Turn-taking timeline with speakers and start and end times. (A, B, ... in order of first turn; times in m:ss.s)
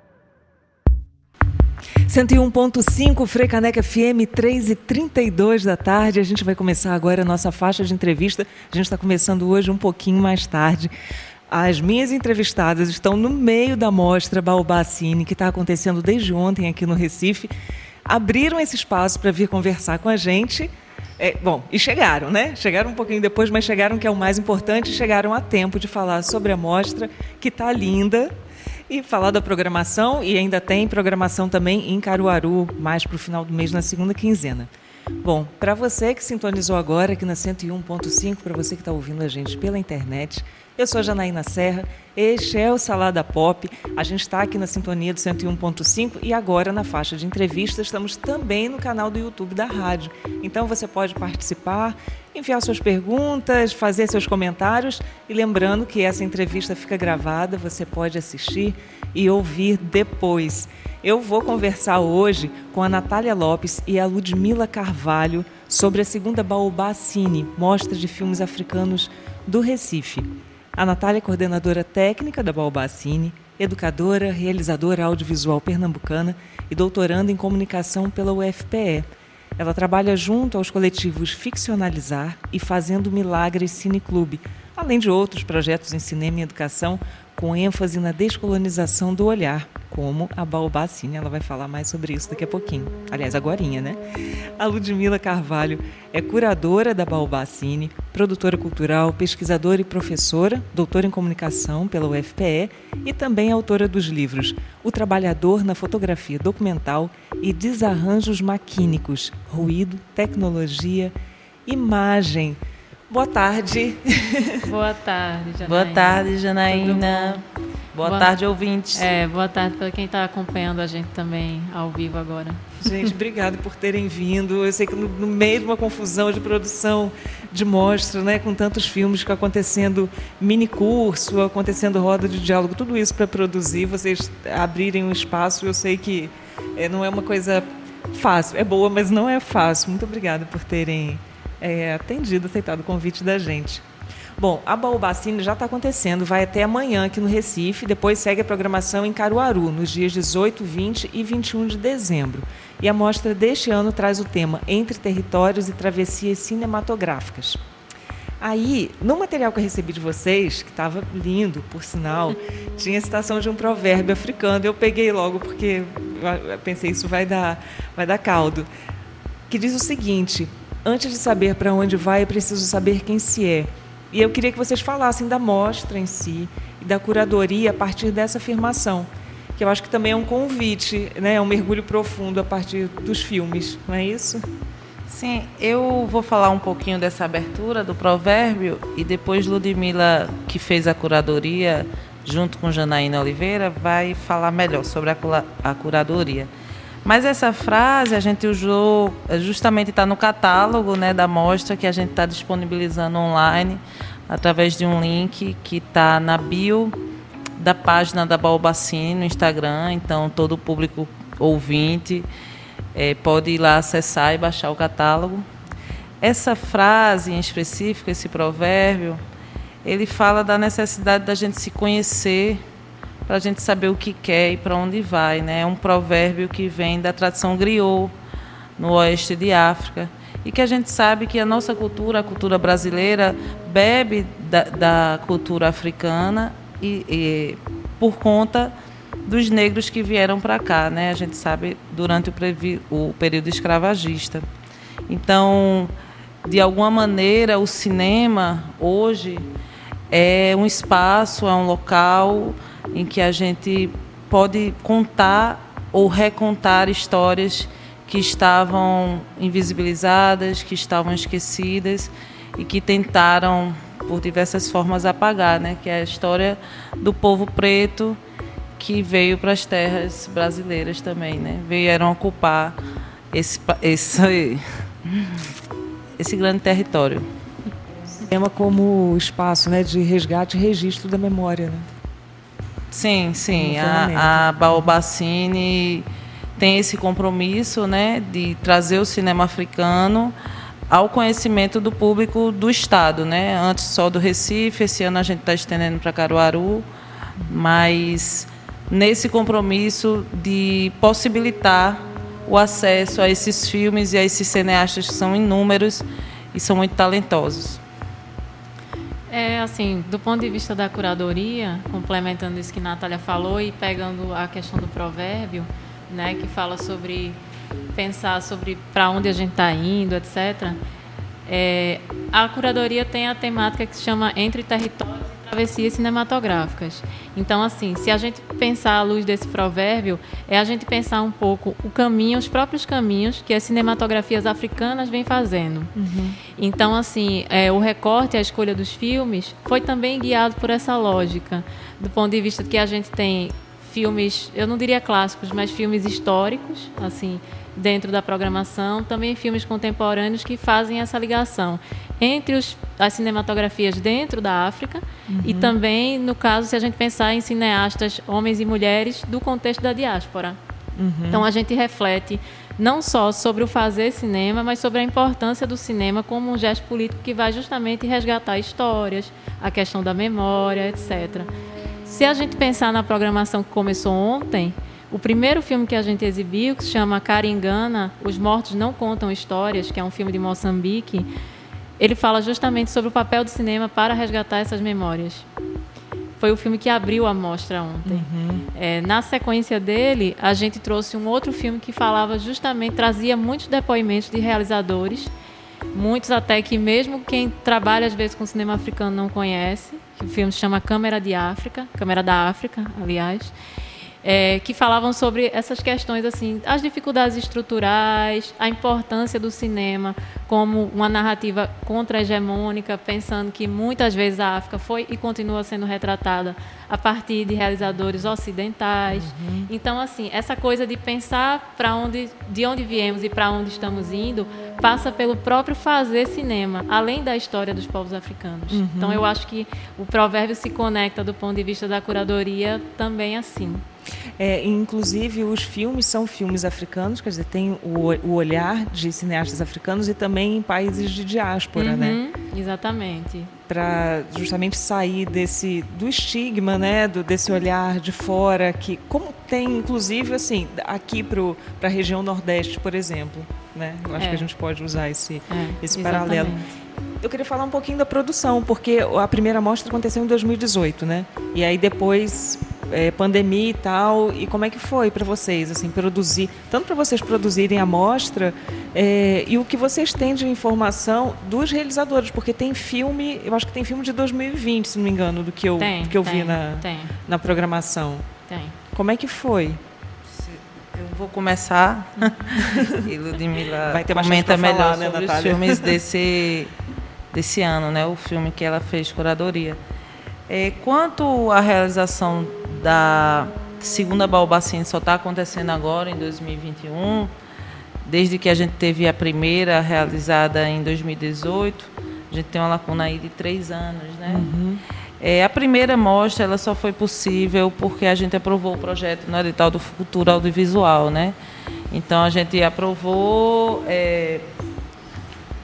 0:02.1-0:10.9 A
0:11.5-0:17.5 A
0:18.0-0:28.3 A
0:28.9-0:34.7 A
0:35.2-1:19.0 A
1:19.6-1:34.0 A
1:34.6-1:51.1 A
1:51.6-1:52.6 A
1:53.1-1:54.7 A
1:54.6-1:57.4 B
1:55.6-1:57.4 C
1:57.9-1:59.1 C
1:58.0-1:58.3 B
1:58.9-2:02.9 B
2:02.8-2:23.8 A
2:24.4-2:37.6 A
2:38.4-2:48.7 A
2:49.5-3:04.4 A
3:05.1-3:16.5 C
3:17.0-3:27.0 C
3:27.6-3:32.3 C
3:32.9-3:35.4 C
3:36.2-3:39.2 C
3:39.8-3:42.6 C
3:43.3-3:48.1 C
3:48.8-3:58.7 C
3:59.2-4:04.4 C
4:05.1-4:05.9 C
4:06.4-4:09.5 C
4:10.1-4:28.2 C
4:28.8-4:32.8 C
4:33.3-4:35.4 C
4:36.2-4:37.2 C
4:38.2-4:41.9 A
4:42.9-4:46.0 C
4:43.5-4:44.9 A
4:46.6-4:50.3 C
4:50.9-4:56.8 C
4:57.5-5:07.8 C
5:09.3-5:17.4 B
5:17.9-5:20.8 B
5:21.5-5:35.9 B
5:35.9-5:36.4 A
5:36.5-6:00.6 B
5:55.3-5:55.8 A
6:01.0-6:01.4 A
6:01.3-6:11.5 B
6:12.0-6:21.3 B
6:22.0-6:25.4 B
6:26.4-6:35.3 B
6:28.0-6:28.6 A
6:35.9-6:43.5 B
6:44.2-7:13.8 B
6:59.1-6:59.7 A
7:08.7-7:09.3 A
7:14.4-7:22.2 A
7:21.8-7:23.5 B
7:23.7-7:36.6 A
7:34.2-7:34.5 B
7:35.5-7:36.7 B
7:37.2-7:58.2 A
7:55.8-7:57.1 B
7:58.5-7:58.8 B
7:58.9-7:59.8 A
8:00.3-8:06.7 C
8:02.6-8:03.0 A
8:03.9-8:06.0 A
8:07.3-8:09.8 C
8:10.5-8:17.3 C
8:18.0-8:24.5 C
8:24.3-8:24.8 A
8:25.2-8:31.3 C
8:31.9-8:34.4 C